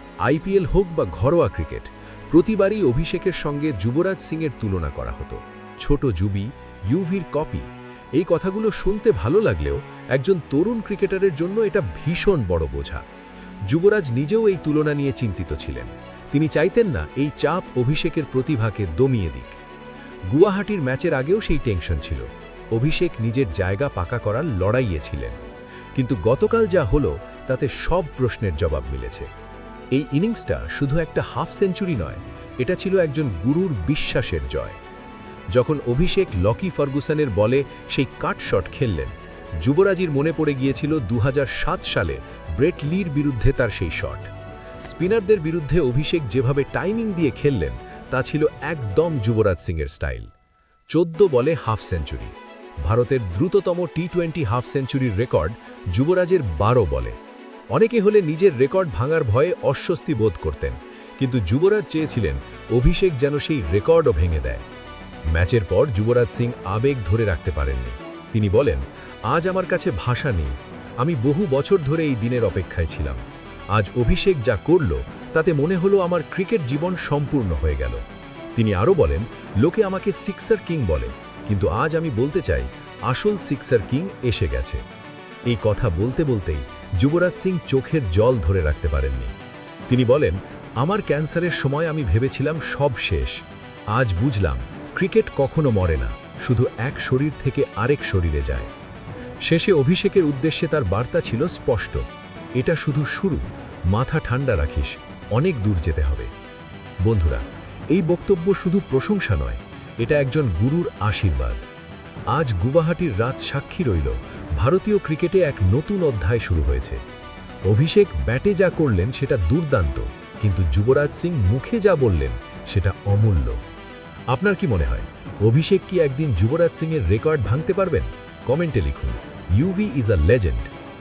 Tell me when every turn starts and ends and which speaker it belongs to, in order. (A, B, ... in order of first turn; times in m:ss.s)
0:00.2-0:13.0 A
0:13.7-0:19.6 A
0:20.3-0:25.4 A
0:26.0-0:29.3 A
0:29.9-0:34.8 A
0:35.5-0:44.3 A
0:44.8-0:50.3 A
0:50.9-0:57.2 A
0:57.7-1:04.6 A
1:05.3-1:18.0 A
1:18.6-1:24.8 A
1:25.5-1:29.3 A
1:29.9-1:38.7 A
1:39.4-1:42.0 A
1:42.6-1:46.3 A
1:47.0-1:51.6 A
1:52.3-1:57.0 A
1:57.7-2:03.6 A
2:04.3-2:10.7 A